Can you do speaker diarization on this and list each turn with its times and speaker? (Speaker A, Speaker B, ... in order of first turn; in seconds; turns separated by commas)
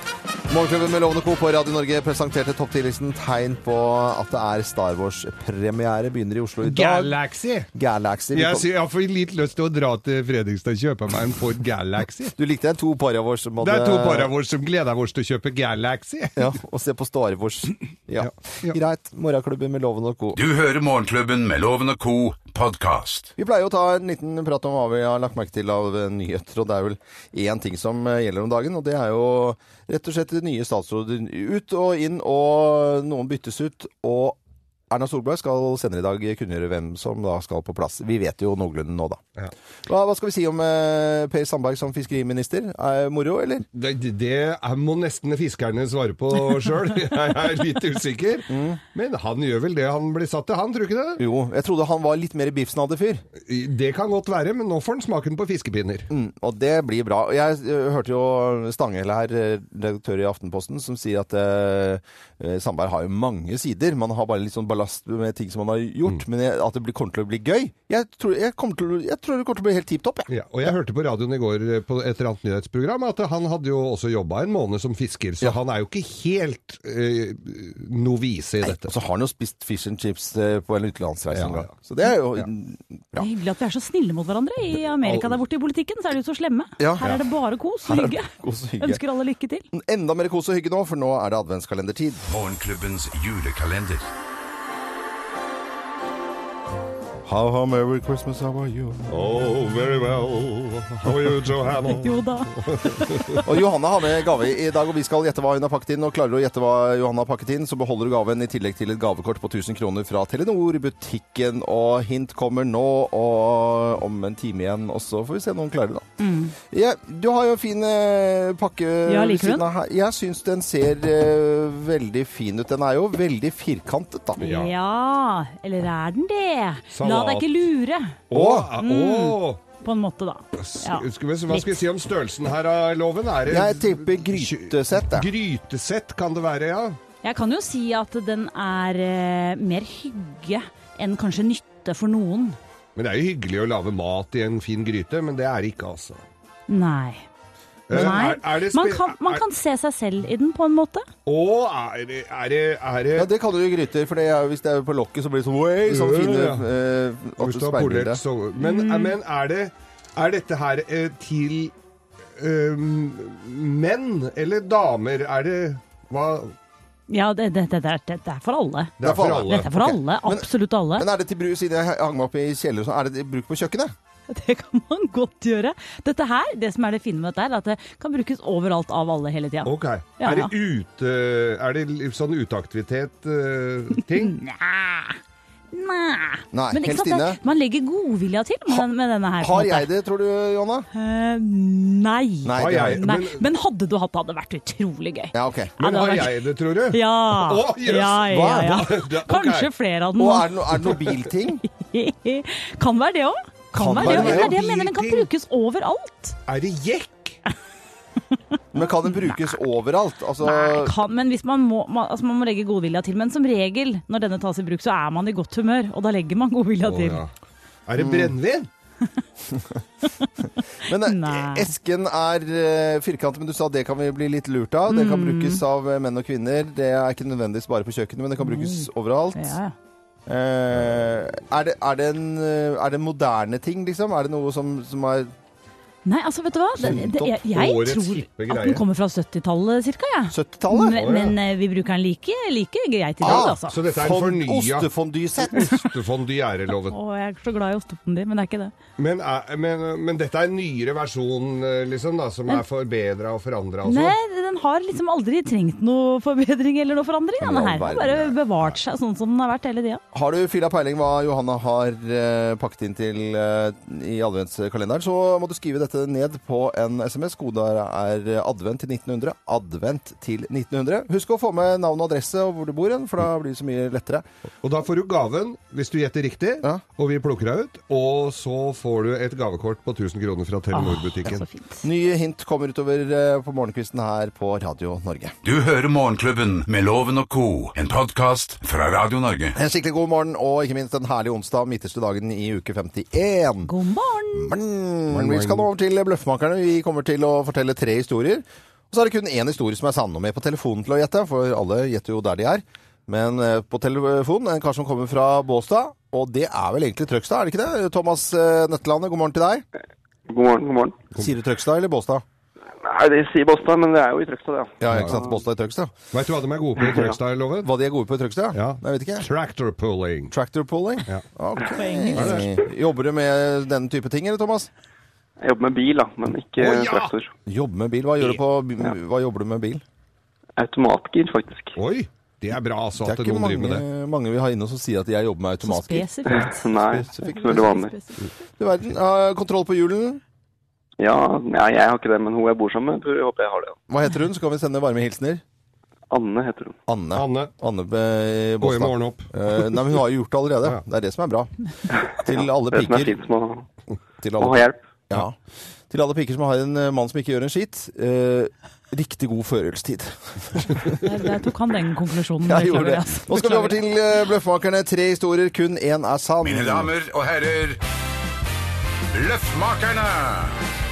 Speaker A: 0.5-7.2, Speaker B: 6.6-7.7, Speaker A: 7.7-8.7, Speaker B: 8.3-12.3, Speaker A: 12.4-14.3, Speaker B: 13.6-16.5, Speaker A: 16.4-20.4, Speaker B: 18.2-18.8, Speaker C: 20.3-23.3, Speaker A: 23.4-34.4, Speaker A: 34.9-39.2, Speaker A: 39.9-43.6, Speaker B: 43.7-51.2, Speaker A: 48.5-48.8, Speaker A: 51.2-53.2, Speaker B: 53.4-56.1, Speaker A: 56.1-70.3, Speaker B: 70.3-78.9, Speaker A: 78.6-83.3, Speaker B: 81.3-81.7, Speaker D: 83.2-89.7, Speaker B: 85.0-85.4, Speaker A: 86.8-87.2, Speaker A: 87.8-89.0, Speaker A: 89.7-92.2, Speaker C: 92.3-94.1, Speaker A: 97.2-99.1, Speaker B: 99.1-103.4, Speaker D: 102.0-103.4, Speaker A: 103.4-116.1, Speaker D: 116.2-116.5, Speaker A: 116.6-124.5, Speaker D: 119.0-119.7, Speaker D: 124.4-128.2, Speaker B: 124.4-124.7, Speaker B: 126.9-127.5, Speaker B: 128.3-129.6, Speaker A: 128.3-128.7, Speaker D: 128.8-131.8, Speaker B: 130.6-137.0, Speaker A: 133.5-135.3, Speaker D: 137.2-142.6, Speaker B: 142.9-146.2, Speaker D: 146.7-147.2, Speaker B: 147.9-149.4, Speaker D: 147.9-151.1, Speaker B: 151.2-153.3, Speaker A: 153.1-158.2, Speaker B: 155.8-156.7, Speaker B: 157.4-161.7, Speaker D: 158.6-159.2, Speaker B: 162.4-166.5, Speaker D: 167.1-171.1, Speaker B: 169.0-169.7, Speaker A: 169.0-173.9, Speaker D: 174.3-180.5, Speaker B: 179.6-184.3, Speaker D: 184.1-185.2, Speaker D: 185.7-189.9, Speaker A: 186.5-187.4, Speaker A: 189.4-190.9, Speaker D: 190.9-200.9, Speaker A: 192.4-193.0, Speaker B: 192.6-193.4, Speaker A: 195.3-195.7, Speaker B: 195.8-199.7, Speaker A: 198.3-198.8, Speaker A: 200.2-201.6, Speaker D: 201.6-206.4, Speaker A: 203.7-204.5, Speaker B: 203.8-205.3, Speaker B: 206.5-207.4, Speaker A: 208.7-210.9, Speaker D: 209.1-209.4, Speaker D: 210.4-217.2, Speaker B: 216.8-217.3, Speaker B: 217.9-218.7, Speaker A: 218.0-218.3, Speaker D: 220.0-220.3, Speaker A: 220.8-229.6, Speaker D: 220.9-221.7, Speaker D: 224.9-225.6, Speaker D: 228.4-229.7, Speaker A: 230.3-235.3, Speaker D: 236.0-243.8, Speaker A: 236.8-237.3, Speaker B: 236.8-238.8, Speaker A: 240.3-241.2, Speaker B: 240.9-241.3, Speaker A: 243.2-245.8, Speaker B: 243.2-244.9, Speaker B: 245.5-246.9, Speaker D: 246.9-248.7, Speaker B: 249.0-254.2, Speaker D: 253.8-260.0, Speaker A: 257.4-258.4, Speaker A: 260.1-274.2, Speaker B: 274.6-281.4, Speaker D: 280.7-281.8, Speaker A: 281.8-285.3, Speaker C: 285.4-289.6, Speaker A: 289.5-293.7, Speaker D: 293.6-294.5, Speaker A: 294.3-309.6, Speaker B: 295.1-295.7, Speaker E: 310.3-311.0, Speaker A: 311.1-312.2, Speaker E: 312.8-315.3, Speaker A: 314.8-315.9, Speaker B: 316.1-317.7, Speaker A: 317.6-319.3, Speaker B: 318.5-320.3, Speaker A: 320.3-324.7, Speaker D: 321.7-322.4, Speaker B: 322.1-322.5, Speaker E: 325.4-327.3, Speaker B: 326.6-327.1, Speaker A: 327.5-329.8, Speaker E: 330.6-331.8, Speaker B: 331.8-333.8, Speaker A: 333.0-336.1, Speaker D: 335.6-338.2, Speaker E: 336.3-337.9, Speaker A: 336.9-337.6, Speaker A: 338.6-340.2, Speaker E: 341.0-343.8, Speaker A: 343.9-345.4, Speaker E: 346.1-346.8, Speaker A: 346.9-351.5, Speaker B: 347.1-347.5, Speaker B: 348.6-349.8, Speaker E: 351.9-352.2, Speaker A: 352.1-353.2, Speaker E: 352.7-353.6, Speaker A: 354.2-355.4, Speaker E: 354.4-354.8, Speaker A: 355.9-361.0, Speaker D: 361.0-363.8, Speaker A: 362.4-366.9, Speaker C: 366.4-367.8, Speaker C: 369.1-370.6